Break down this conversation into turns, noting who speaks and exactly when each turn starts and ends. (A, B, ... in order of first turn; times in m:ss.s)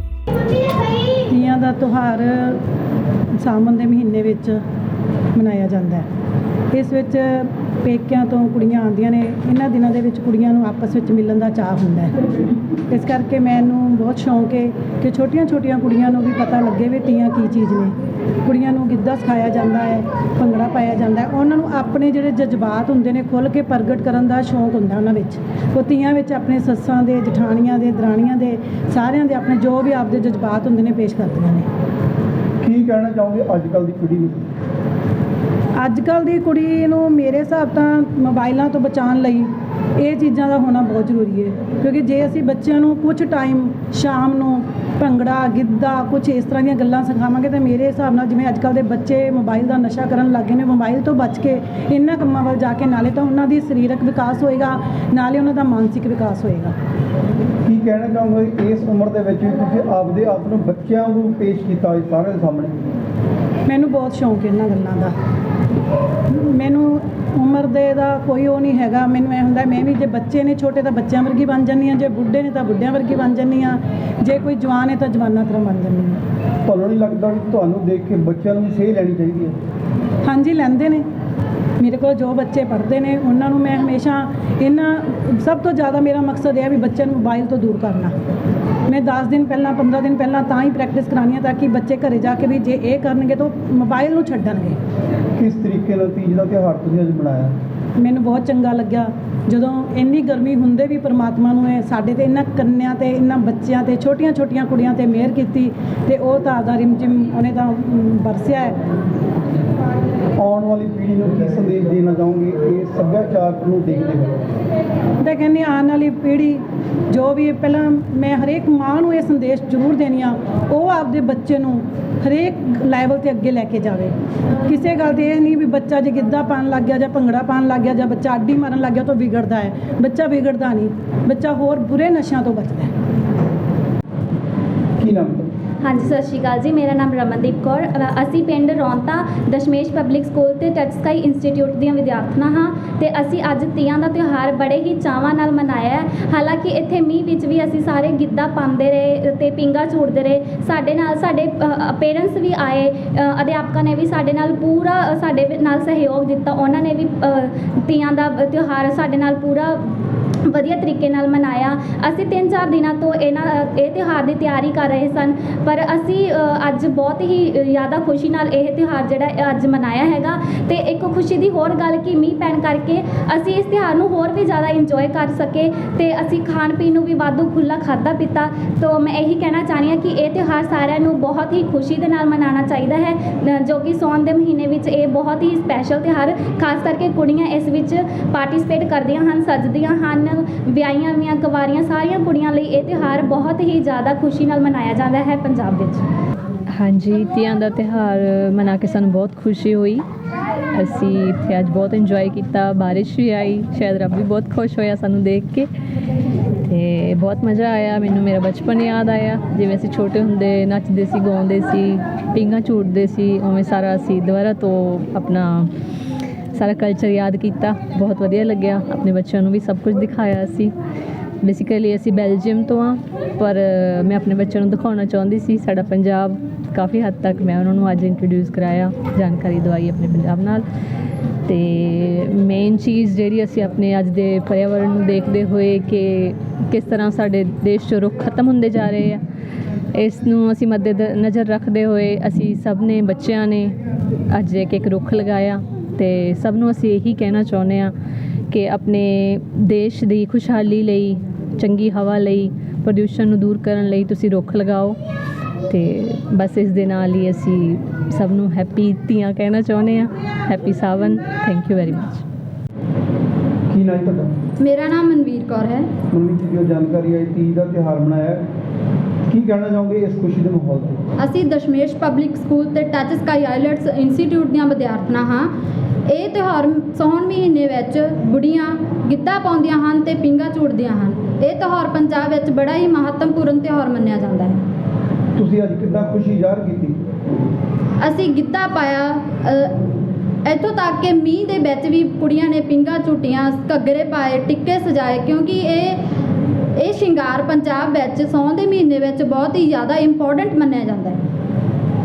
0:01.3-0:02.6 A
0:03.4-0:04.6 A
0:05.4-0:06.1 A
0:06.7-0:12.2 A
0:12.9-0:17.9 A
0:18.4-0:31.7 A
0:32.6-0:34.4 B
0:35.8-0:56.7 A
0:57.6-1:02.8 B
1:03.7-1:05.1 A
1:06.3-1:16.2 A
1:16.6-1:19.6 B
1:20.2-1:21.0 A
1:21.8-1:28.1 A
1:28.9-1:34.8 A
1:35.4-1:37.6 B
1:38.0-1:48.8 A
1:50.4-1:54.4 B
1:55.2-2:04.1 A
2:04.7-2:12.9 A
2:15.0-2:15.5 B
2:15.8-2:39.9 C
2:40.5-3:16.1 C
3:16.7-3:20.0 D
3:20.7-3:25.7 D
3:26.7-3:35.7 D
3:36.5-3:40.7 D
3:41.4-3:50.6 D
3:51.5-3:59.2 D
4:00.0-4:03.7 D
4:04.3-4:07.9 D
4:08.5-4:15.0 D
4:15.7-4:22.2 D
4:23.7-4:24.4 B
4:24.6-4:25.9 E
4:26.1-4:28.5 B
4:29.3-4:31.0 B
4:31.2-4:35.5 E
4:36.1-4:44.6 E
4:45.4-4:47.0 B
4:48.0-4:49.7 E
4:50.5-4:56.0 E
4:56.8-5:01.2 E